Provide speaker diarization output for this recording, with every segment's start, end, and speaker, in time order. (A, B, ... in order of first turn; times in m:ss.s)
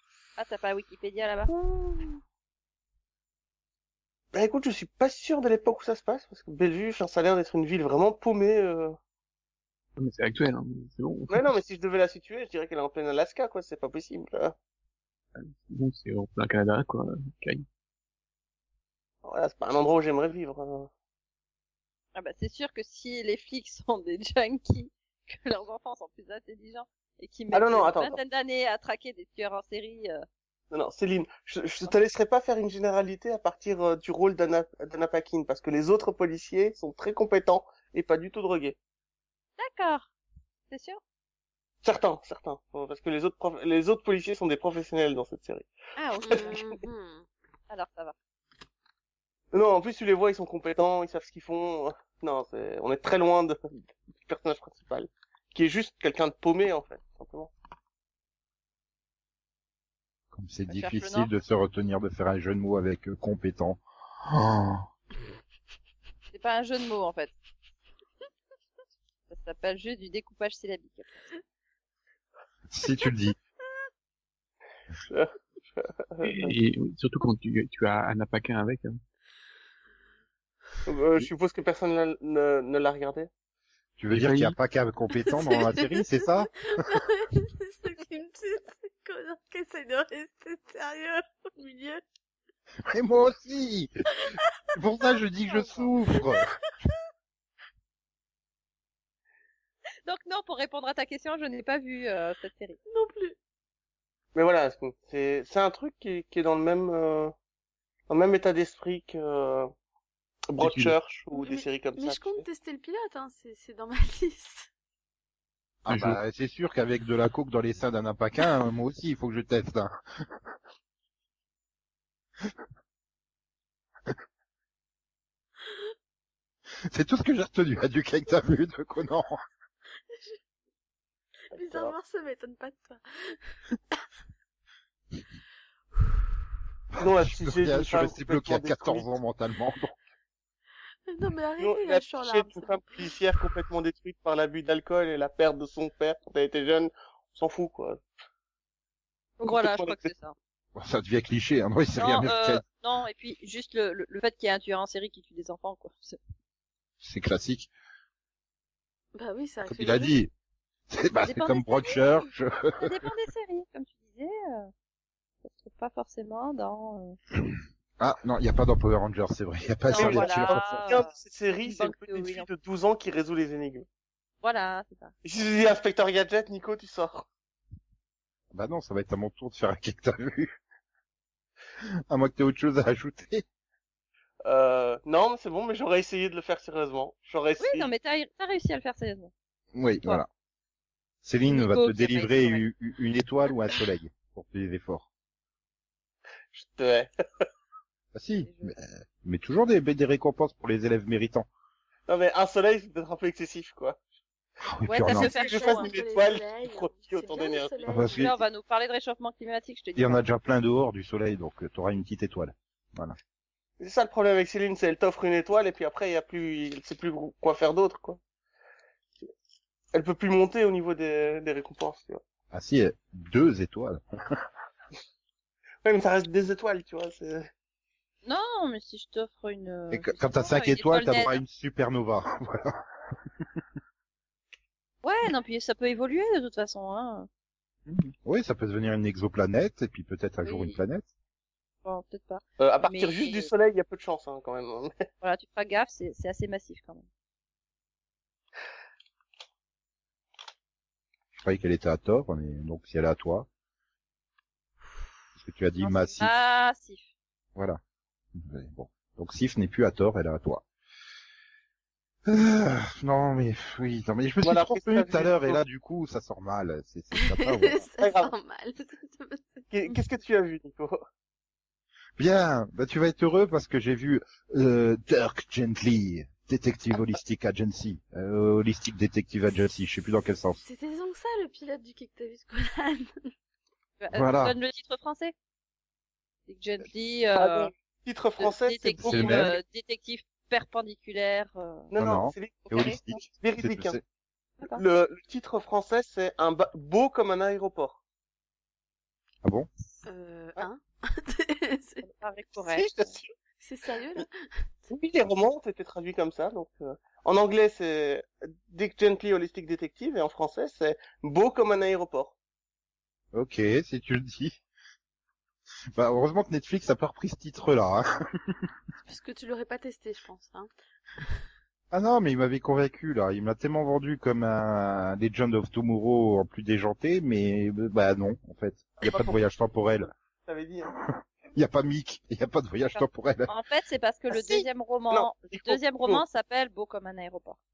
0:00.4-0:01.5 A
0:04.3-0:09.0 B
0:10.0-0:11.5 C
0:11.3-0:14.6 B
0:15.4-0:17.6 C
0:19.2-0:20.9 B
0:22.1-0:30.2 A
0:27.5-0:28.2 B
0:30.7-0:38.8 B
0:39.6-0:40.1 A
0:40.7-0:41.0 A
0:41.8-0:45.7 B
0:46.0-0:46.5 A
0:46.2-0:47.2 D
0:46.3-0:46.7 B
0:47.7-0:48.1 A
0:49.5-0:57.5 B
1:00.3-1:04.8 E
1:00.7-1:01.3 A
1:06.3-1:07.3 A
1:09.3-1:11.3 A
1:12.7-1:13.4 E
1:15.1-1:16.5 B
1:16.2-1:19.0 C
1:20.8-1:23.3 B
1:24.0-1:26.7 E
1:24.1-1:24.6 C
1:25.2-1:32.0 D
1:32.9-1:33.9 E
1:34.7-1:36.5 E
1:40.0-1:42.8 A
1:42.9-1:43.4 D
1:44.3-1:47.3 B
1:48.1-1:49.7 B
1:50.5-1:52.4 B
1:50.6-1:50.9 C
1:51.3-1:54.7 D
1:55.8-2:00.4 E
1:55.9-1:56.2 C
2:06.9-2:09.4 E
2:10.1-2:10.4 D
2:11.5-2:13.4 D
2:11.5-2:11.9 B
2:17.0-2:19.9 E
2:17.0-2:19.1 B
2:21.1-2:23.1 D
2:21.6-2:28.0 B
2:29.4-2:30.3 A
2:29.4-2:30.1 B
2:30.7-2:32.6 E
2:32.0-2:36.2 A
2:37.0-2:37.7 E
2:39.1-2:40.2 D
2:39.6-2:40.3 E
2:40.9-2:43.1 E
2:41.2-2:42.2 A
2:42.8-2:44.7 A
2:45.4-2:47.2 A
2:47.4-2:50.8 E
2:49.9-2:52.5 A
2:49.9-2:53.8 B
2:54.4-2:55.1 A
2:55.2-2:57.2 B
2:58.5-3:00.5 E
3:02.1-3:03.4 E
3:04.4-3:07.9 B
3:07.6-3:09.3 A
3:09.7-3:10.3 E
3:11.2-3:15.0 E
3:11.4-3:12.6 A
3:16.5-3:17.5 B
3:18.1-3:21.5 E
3:18.4-3:18.7 A
3:22.1-3:24.0 B
3:24.6-3:25.3 E
3:24.8-3:25.9 A
3:25.2-3:27.8 B
3:25.3-3:28.3 D
3:27.9-3:28.4 E
3:28.1-3:30.2 A
3:30.0-3:33.2 E
3:33.8-3:38.2 B
3:39.9-3:42.2 B
3:42.5-3:44.4 E
3:45.8-3:47.5 B
3:48.2-3:51.4 A
3:49.9-3:52.8 E
3:55.0-3:57.3 A
3:57.9-4:01.1 E
4:00.4-4:00.8 A
4:01.8-4:03.5 A
4:02.6-4:05.0 B
4:05.2-4:07.1 A
4:11.4-4:13.5 E
4:15.4-4:16.3 E
4:15.8-4:17.1 A
4:18.3-4:20.6 E
4:22.2-4:27.8 E
4:24.4-4:25.6 B
4:27.2-4:30.0 D
4:28.0-4:28.3 B
4:29.7-4:31.0 B
4:32.2-4:40.6 E
4:40.6-4:43.1 D
4:44.0-4:45.3 A
4:44.1-4:44.6 E
4:46.5-4:47.7 A
4:47.4-4:49.6 B
4:48.4-4:51.9 A
4:49.0-4:49.5 E
4:51.9-4:54.0 B
4:52.0-4:54.0 E
4:52.6-4:53.2 A
4:54.7-4:58.0 B
5:00.0-5:02.0 D
5:02.0-5:03.1 A
5:02.6-5:03.3 B
5:03.6-5:04.3 D
5:04.9-5:12.3 B
5:13.3-5:14.6 E
5:15.9-5:18.6 E
5:19.1-5:20.7 D
5:21.9-5:30.1 E
5:29.0-5:29.4 B
5:30.4-5:30.9 B
5:31.1-5:33.5 E
5:32.9-5:37.6 A
5:34.3-5:36.2 B